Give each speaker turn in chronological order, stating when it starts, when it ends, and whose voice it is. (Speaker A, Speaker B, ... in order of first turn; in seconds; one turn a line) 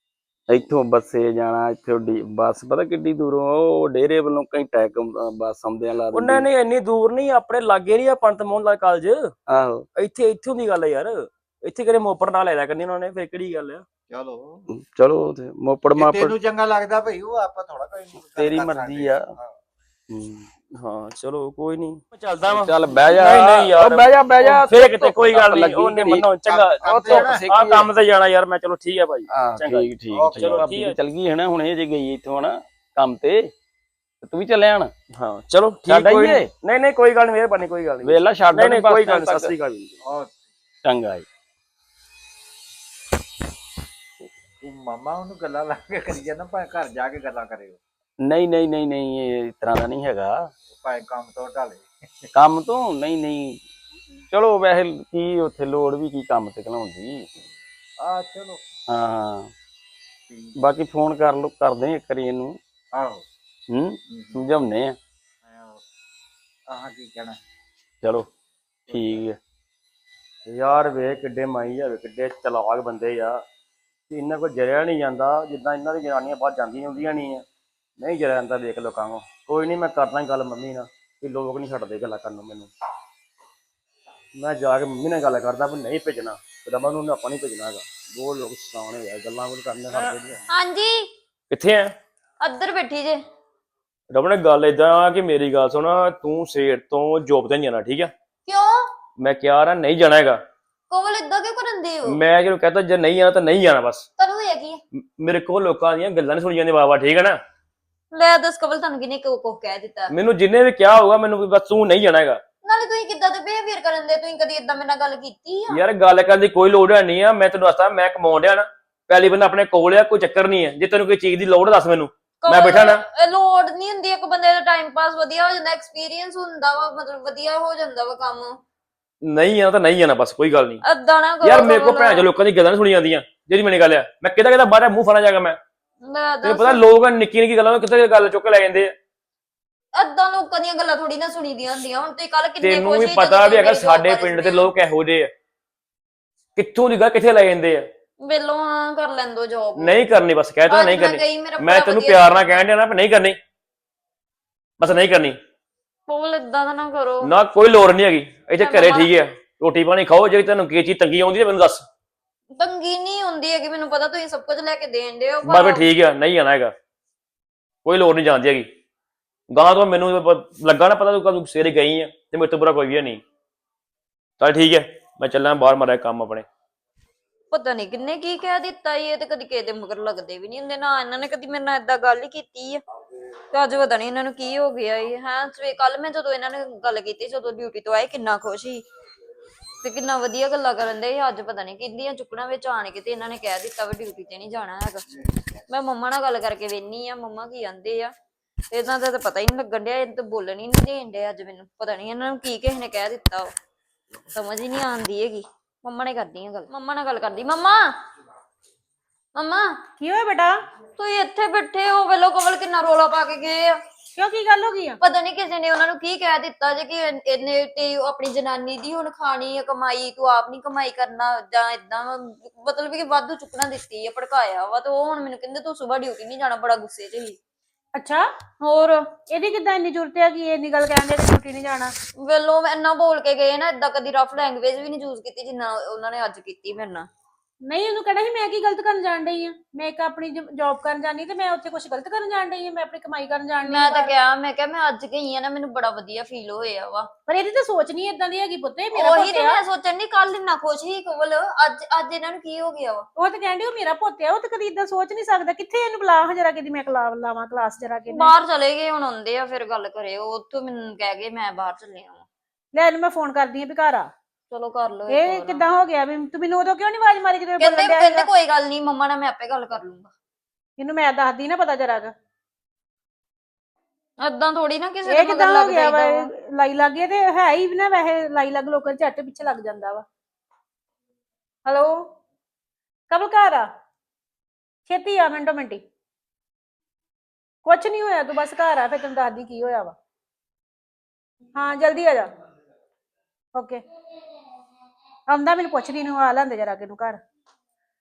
Speaker A: 0.5-6.5
Speaker B: 6.1-9.3
Speaker A: 9.5-9.8
Speaker B: 9.9-13.8
Speaker C: 14.1-14.6
Speaker A: 14.7-16.3
Speaker C: 15.9-19.5
Speaker A: 18.4-19.3
Speaker A: 20.1-20.5
Speaker B: 20.7-30.9
Speaker A: 22.5-26.3
Speaker C: 26.5-27.4
Speaker A: 26.8-27.9
Speaker A: 29.3-33.5
Speaker C: 30.1-30.7
Speaker A: 34.2-34.9
Speaker B: 35.2-40.0
Speaker A: 35.9-36.5
Speaker A: 38.0-39.5
Speaker C: 40.0-40.4
Speaker A: 40.9-41.3
Speaker C: 44.6-47.8
Speaker A: 48.2-50.5
Speaker C: 50.7-51.9
Speaker A: 52.3-53.6
Speaker A: 54.3-57.3
Speaker C: 58.0-58.6
Speaker A: 58.9-59.5
Speaker C: 60.3-60.6
Speaker A: 60.6-62.6
Speaker C: 62.9-63.2
Speaker A: 63.7-65.0
Speaker C: 64.1-64.4
Speaker C: 65.4-65.8
Speaker C: 66.7-67.4
Speaker A: 68.0-68.3
Speaker C: 68.9-69.2
Speaker A: 68.9-69.4
Speaker B: 70.5-73.4
Speaker B: 74.1-77.4
Speaker B: 78.0-82.7
Speaker B: 84.4-90.4
Speaker D: 90.0-91.1
Speaker B: 91.5-91.9
Speaker D: 92.4-93.2
Speaker B: 94.1-98.1
Speaker D: 98.5-98.9
Speaker B: 99.2-100.4
Speaker D: 100.9-102.2
Speaker B: 102.0-104.0
Speaker D: 104.2-104.8
Speaker B: 104.9-107.4
Speaker D: 108.1-110.1
Speaker B: 110.1-112.4
Speaker D: 112.6-115.8
Speaker B: 115.7-123.0
Speaker D: 122.4-128.6
Speaker B: 129.2-130.8
Speaker D: 130.8-132.3
Speaker B: 131.4-135.6
Speaker D: 136.0-136.8
Speaker B: 136.4-138.9
Speaker D: 139.9-144.7
Speaker B: 142.6-145.3
Speaker B: 146.6-147.8
Speaker D: 148.2-150.0
Speaker B: 149.8-153.4
Speaker D: 150.7-152.3
Speaker B: 154.8-155.4
Speaker D: 156.1-157.3
Speaker B: 157.2-161.8
Speaker D: 158.6-159.1
Speaker D: 162.5-165.9
Speaker B: 165.4-166.7
Speaker B: 167.8-168.7
Speaker B: 169.5-173.2
Speaker B: 174.4-176.5
Speaker D: 177.5-182.8
Speaker D: 183.5-188.8
Speaker D: 189.8-195.1
Speaker D: 195.7-198.1
Speaker D: 198.7-203.5
Speaker D: 204.3-208.0
Speaker D: 209.3-209.8
Speaker E: 210.0-210.6
Speaker D: 211.0-213.8
Speaker E: 214.2-215.0
Speaker D: 215.0-227.4
Speaker E: 228.0-228.3
Speaker D: 228.6-229.1
Speaker E: 229.3-231.9
Speaker D: 232.2-237.1
Speaker E: 237.7-244.1
Speaker D: 243.6-247.1
Speaker E: 247.3-249.6
Speaker D: 248.9-253.1
Speaker E: 253.2-258.3
Speaker D: 258.1-262.2
Speaker E: 262.7-264.1
Speaker D: 264.5-265.6
Speaker E: 265.1-268.3
Speaker D: 267.6-270.1
Speaker E: 270.8-272.1
Speaker D: 274.2-276.3
Speaker E: 275.1-280.0
Speaker E: 281.7-282.1
Speaker E: 283.1-283.7
Speaker E: 284.9-285.8
Speaker E: 287.6-289.9
Speaker E: 291.6-292.3
Speaker E: 293.5-293.8
Speaker E: 295.3-297.2